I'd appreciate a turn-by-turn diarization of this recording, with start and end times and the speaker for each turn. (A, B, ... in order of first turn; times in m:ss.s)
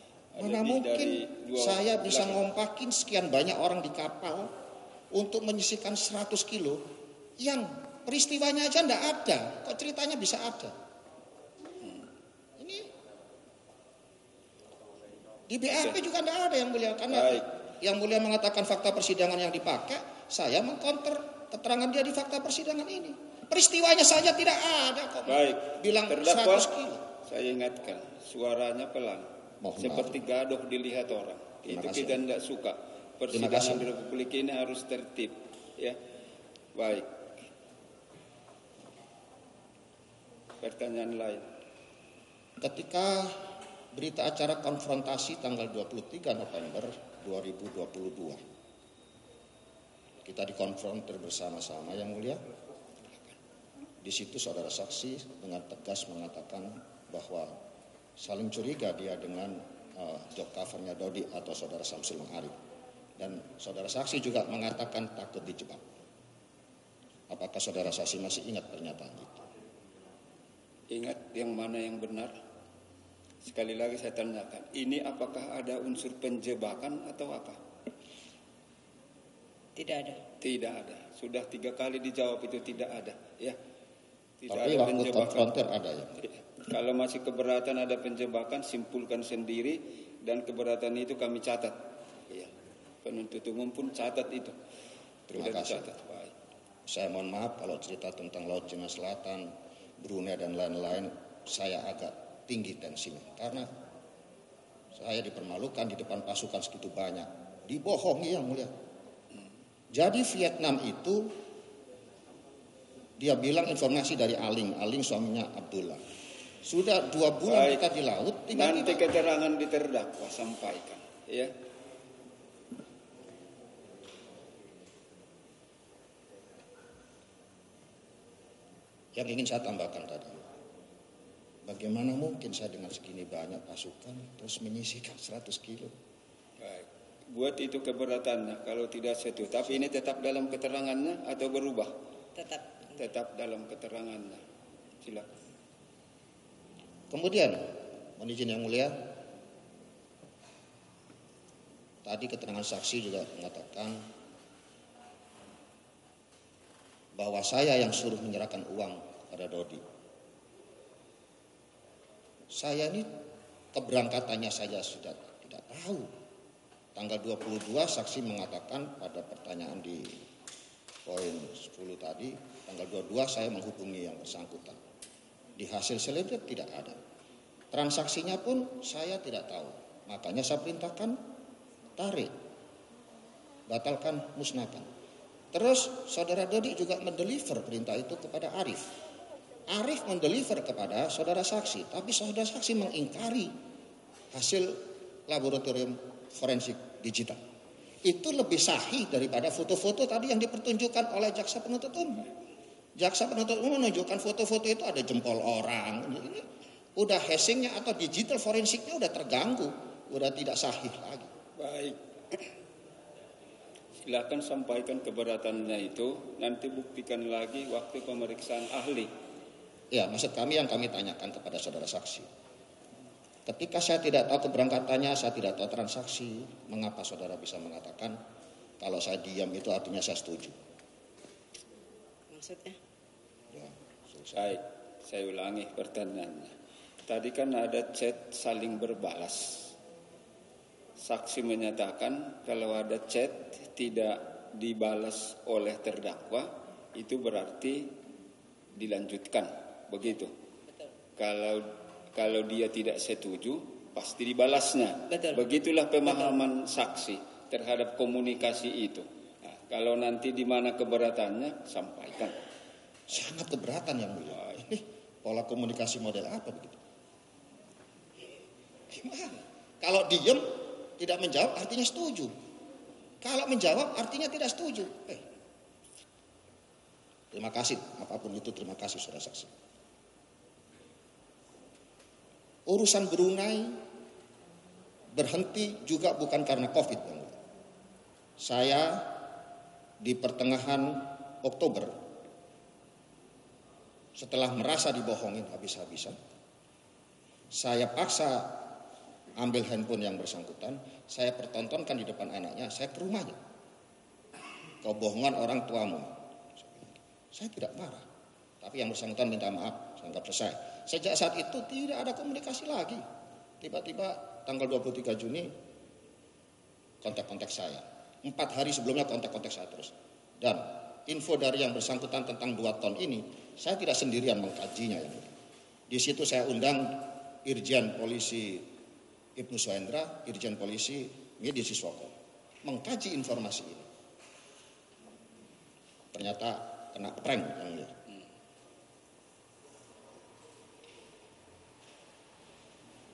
0:00.3-0:02.4 A
0:00.4-0:04.5 B
0:05.1-0:06.8 B
0:07.4-0:10.7 B
0:12.6-0:12.9 B
0:15.5-0:27.0 B
0:17.1-0:17.5 A
0:25.2-0:26.7 A
0:27.2-0:36.0 A
0:29.6-0:30.2 B
0:31.7-0:32.2 B
0:33.3-0:33.9 B
0:36.7-0:37.2 A
0:40.6-0:41.5 A
0:42.6-0:43.4 B
0:43.9-0:48.4 B
0:50.2-0:52.4 B
0:54.0-0:57.6 B
0:58.2-1:02.5 B
1:03.2-1:05.8 B
1:07.3-1:09.4 B
1:10.9-1:12.3 A
1:13.4-1:17.6 A
1:19.8-1:20.2 C
1:20.4-1:23.6 A
1:24.4-1:25.5 A
1:24.5-1:26.2 B
1:26.2-1:32.5 A
1:33.0-1:34.6 A
1:35.3-1:35.9 B
1:35.3-1:36.3 A
1:36.9-1:43.7 B
1:44.9-1:48.7 B
1:49.9-1:51.3 B
1:53.2-1:56.0 B
1:56.6-1:59.0 B
1:57.4-1:57.8 A
1:58.5-2:01.5 A
2:09.1-2:10.5 B
2:11.6-2:15.9 B
2:16.6-2:21.9 A
2:22.4-2:22.8 C
2:22.9-2:24.4 A
2:25.0-2:25.3 A
2:27.1-2:29.0 B
2:32.0-2:34.0 B
2:37.2-2:39.8 B
2:42.5-2:43.1 B
2:43.7-2:46.1 B
2:46.9-2:50.2 B
2:51.0-2:54.8 B
2:55.6-2:57.0 B
2:57.7-3:01.2 B
3:02.0-3:02.3 B
3:03.7-3:04.9 B
3:05.5-3:08.9 B
3:09.7-3:13.5 B
3:14.3-3:17.4 B
3:18.0-3:22.2 B
3:23.0-3:26.4 B
3:27.0-3:31.3 B
3:31.6-3:32.4 A
3:34.0-3:39.1 A
3:39.9-3:42.3 B
3:43.4-3:48.2 B
3:48.8-3:50.6 B
3:52.3-3:52.8 C
3:53.5-3:54.6 B
3:54.3-3:56.5 A
3:57.0-3:59.7 A
4:01.0-4:07.9 A
4:08.7-4:10.3 A
4:11.2-4:22.4 A
4:15.1-4:15.4 C
4:16.0-4:16.3 C
4:23.1-4:26.8 B
4:28.9-4:32.3 B
4:33.2-4:35.2 B
4:37.3-4:39.5 B
4:42.7-4:43.8 B
4:45.1-4:47.3 B
4:48.4-4:49.2 B
4:50.0-4:51.9 B
4:54.2-4:56.2 B
4:57.5-4:58.7 B
4:59.4-5:03.4 B
5:04.8-5:08.0 B
5:08.6-5:13.0 B
5:13.6-5:15.5 B
5:17.0-5:25.3 B
5:25.9-5:28.7 B
5:29.4-5:33.9 B
5:36.1-5:37.9 B